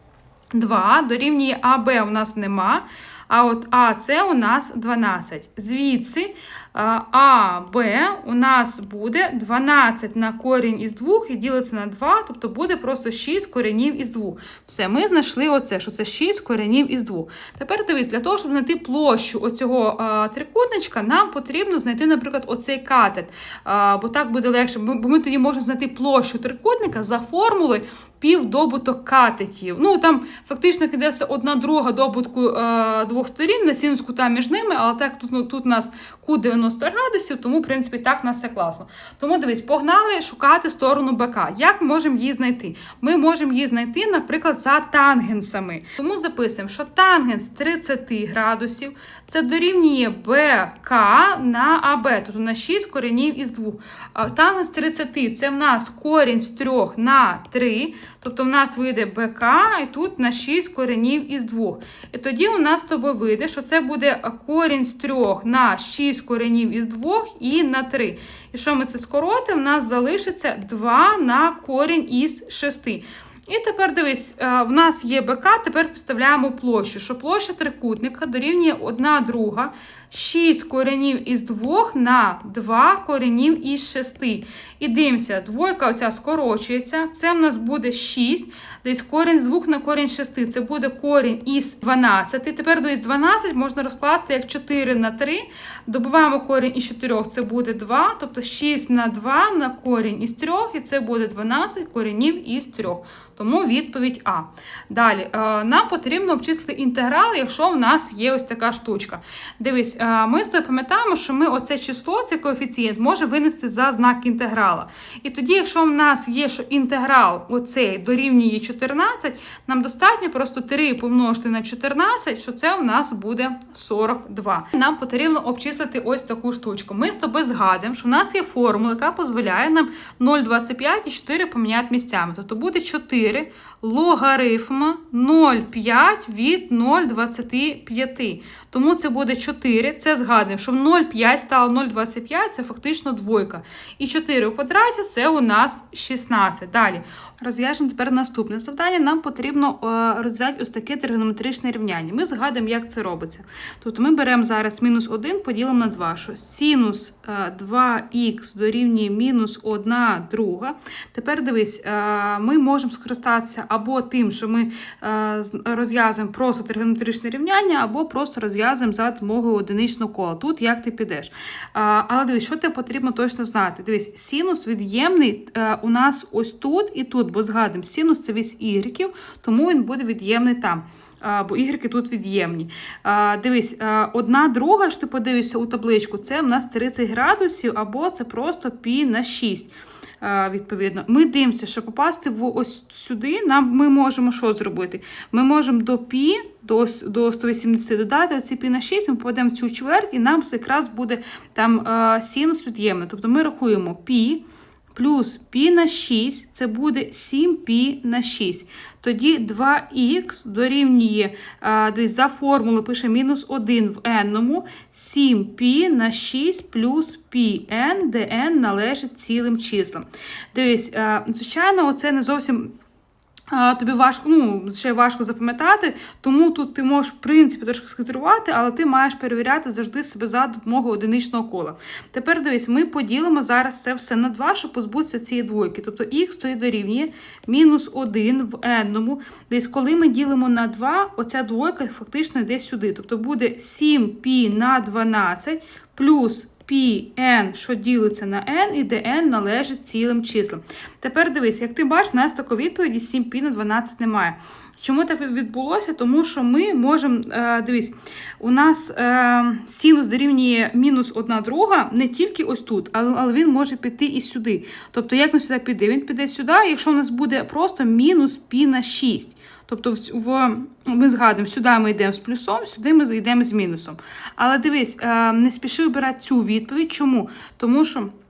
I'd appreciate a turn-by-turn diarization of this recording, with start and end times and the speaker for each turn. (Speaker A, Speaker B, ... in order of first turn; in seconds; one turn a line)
Speaker A: 0.5-222.7
Speaker A: 223.5-278.1